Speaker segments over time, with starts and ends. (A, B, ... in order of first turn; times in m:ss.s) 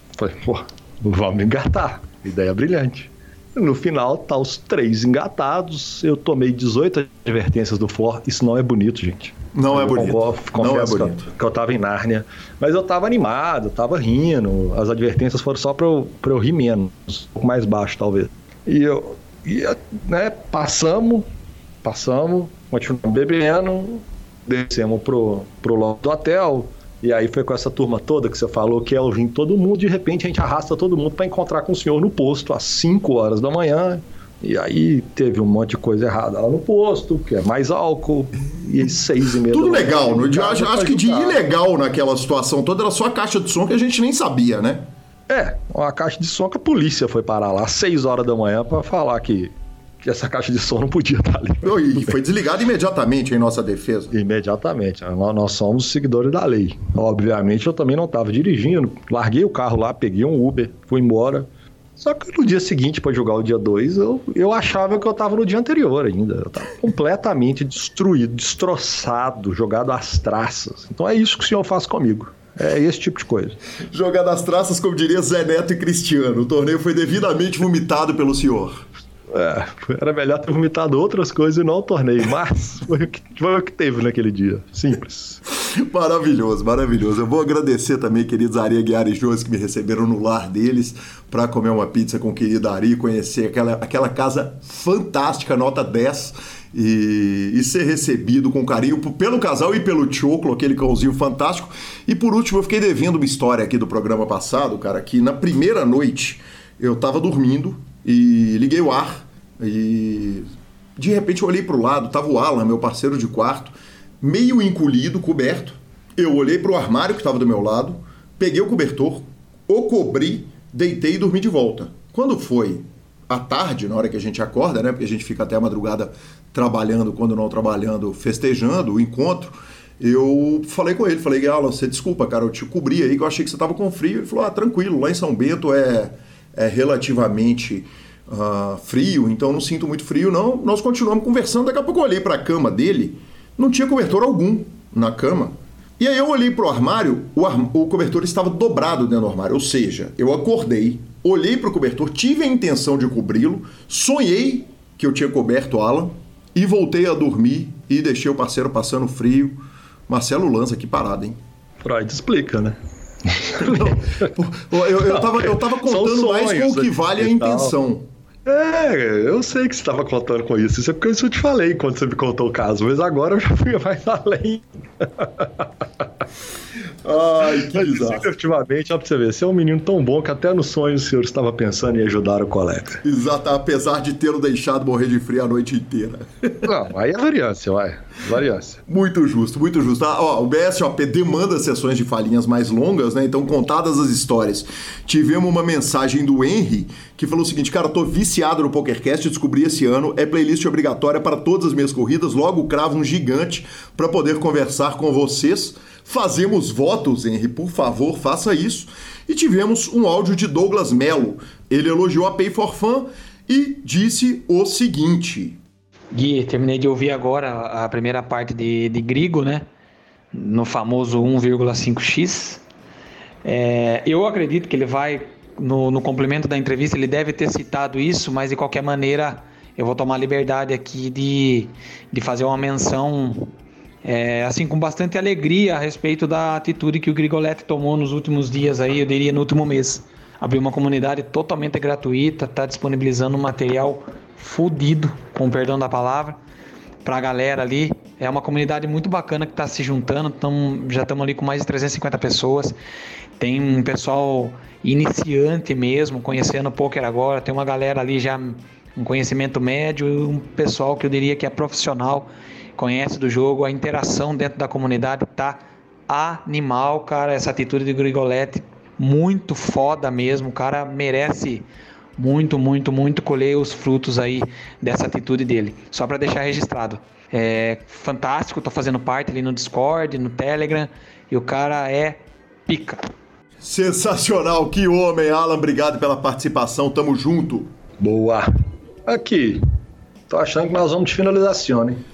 0:00.2-0:21.3 A
0:09.5-0:11.3 B
0:21.8-0:41.4 A
0:39.5-0:44.9 B
0:45.3-0:52.1 A
0:51.6-0:54.1 B
0:54.1-1:13.6 A
1:13.9-1:18.8 B
1:19.3-1:25.4 A
1:25.5-1:50.4 B
1:51.0-2:41.4 B
2:41.8-2:44.3 A
2:43.6-2:48.1 B
2:45.1-2:47.7 A
2:48.4-2:56.1 A
2:57.0-2:58.3 B
2:57.7-3:03.0 A
3:03.0-3:06.7 B
3:06.6-3:08.8 A
3:08.9-3:35.6 B
3:36.1-3:39.7 C
3:40.3-3:42.6 C
3:43.4-4:06.4 C
4:07.0-4:12.8 C
4:13.4-4:31.6 C
4:32.2-4:43.1 C
4:43.6-4:47.7 B
4:48.0-4:48.5 A
4:49.0-4:49.6 A
4:50.3-4:52.0 A